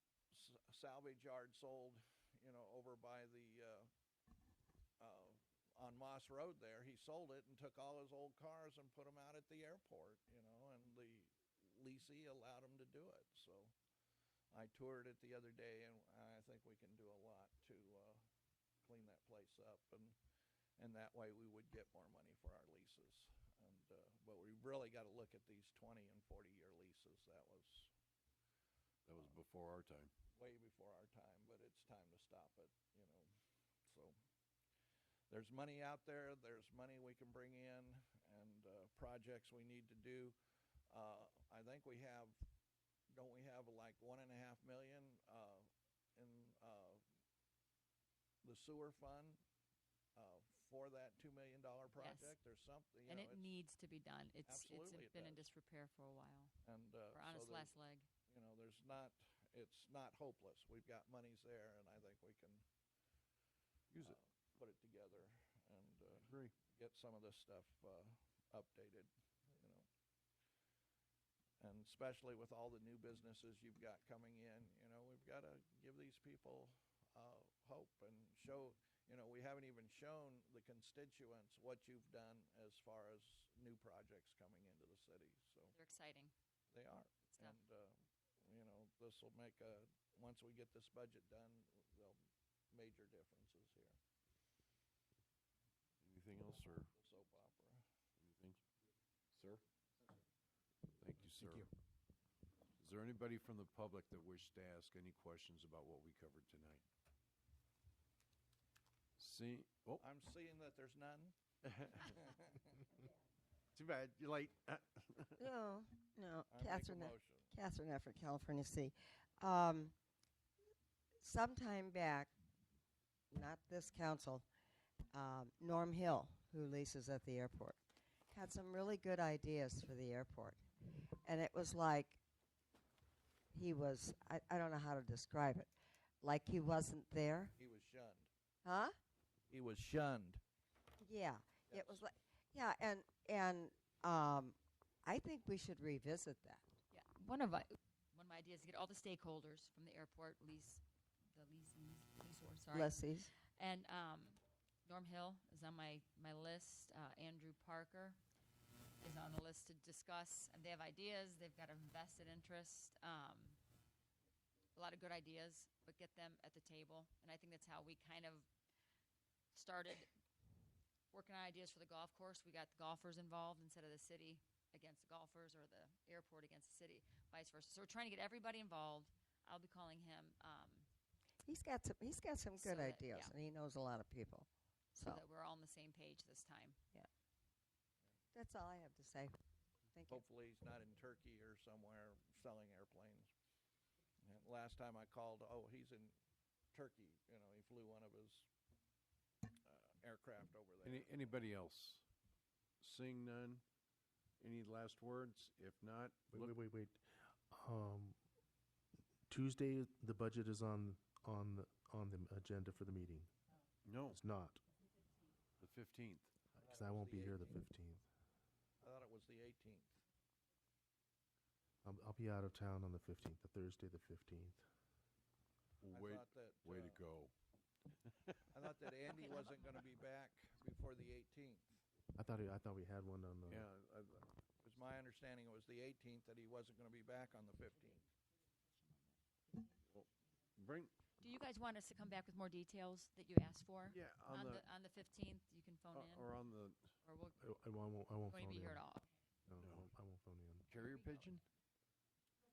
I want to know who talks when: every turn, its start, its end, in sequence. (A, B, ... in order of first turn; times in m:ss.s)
0:00.3-0:03.9 A
0:05.0-0:13.7 A
0:14.5-0:18.2 A
0:18.8-0:20.2 A
0:20.8-0:27.9 A
0:29.1-0:30.1 B
0:30.4-0:33.3 A
0:33.9-0:34.2 A
0:35.3-0:40.4 A
0:40.9-0:42.4 A
0:43.1-0:47.0 A
0:48.4-0:49.4 A
0:50.2-0:53.5 A
0:52.0-0:52.4 C
0:53.1-0:56.5 C
0:54.5-0:55.5 A
0:56.6-0:57.7 A
0:57.1-0:58.1 C
0:58.3-1:02.6 A
1:04.0-1:09.9 A
1:06.2-1:06.6 B
1:11.6-1:25.8 A
1:25.7-1:26.3 C
1:26.7-1:32.2 A
1:27.3-1:27.6 C
1:32.7-1:34.0 A
1:36.0-1:36.9 B
1:36.9-1:37.8 A
1:38.2-1:38.6 B
1:39.3-1:39.6 B
1:41.0-1:41.7 B
1:42.8-1:46.8 B
1:49.2-1:50.0 B
1:50.0-1:51.4 A
1:51.6-1:52.1 B
1:51.9-1:52.8 A
1:53.8-1:55.4 B
1:55.4-1:59.9 D
1:56.5-1:57.5 A
2:01.2-2:02.3 D
2:03.3-2:04.4 D
2:05.1-2:07.8 D
2:08.3-2:10.6 D
2:11.2-2:12.2 D
2:13.5-2:17.5 D
2:17.6-2:18.3 A
2:18.6-2:19.0 D
2:19.5-2:20.4 A
2:21.0-2:26.6 D
2:21.7-2:22.1 A
2:26.9-2:30.8 C
2:31.3-2:38.2 C
2:32.7-2:33.3 D
2:39.0-2:43.6 C
2:44.8-2:48.5 C
2:49.5-2:50.1 C
2:51.1-3:00.9 C
3:01.4-3:05.2 D
3:02.6-3:03.4 C
3:05.0-3:06.8 C
3:08.3-3:09.4 D
3:09.9-3:10.2 D
3:10.1-3:13.3 A
3:14.2-3:16.1 A
3:16.7-3:18.5 A
3:19.6-3:21.3 A
3:20.8-3:22.0 B
3:22.8-3:23.6 B
3:24.4-3:26.5 B
3:26.3-3:28.2 E
3:29.3-3:33.3 E
3:33.8-3:34.2 B
3:34.1-3:34.6 E
3:35.6-3:36.3 B
3:36.6-3:37.6 A
3:36.6-3:38.0 E
3:38.8-3:40.0 A
3:41.8-3:44.6 E
3:45.8-3:47.3 B
3:45.9-3:47.0 A
3:48.1-3:48.4 B
3:48.5-3:51.8 A
3:49.1-3:49.7 C
3:52.2-3:53.7 E
3:53.5-3:54.3 B
3:54.6-3:58.0 A
3:57.6-3:58.0 C
3:58.8-3:59.6 C
3:59.9-4:01.1 B
4:01.2-4:06.3 C
4:03.9-4:04.6 B
4:05.9-4:06.9 B
4:07.0-4:07.4 C
4:07.4-4:08.8 E
4:08.3-4:09.1 C
4:09.5-4:10.7 E
4:09.6-4:09.9 B
4:10.7-4:11.4 B
4:10.7-4:11.4 C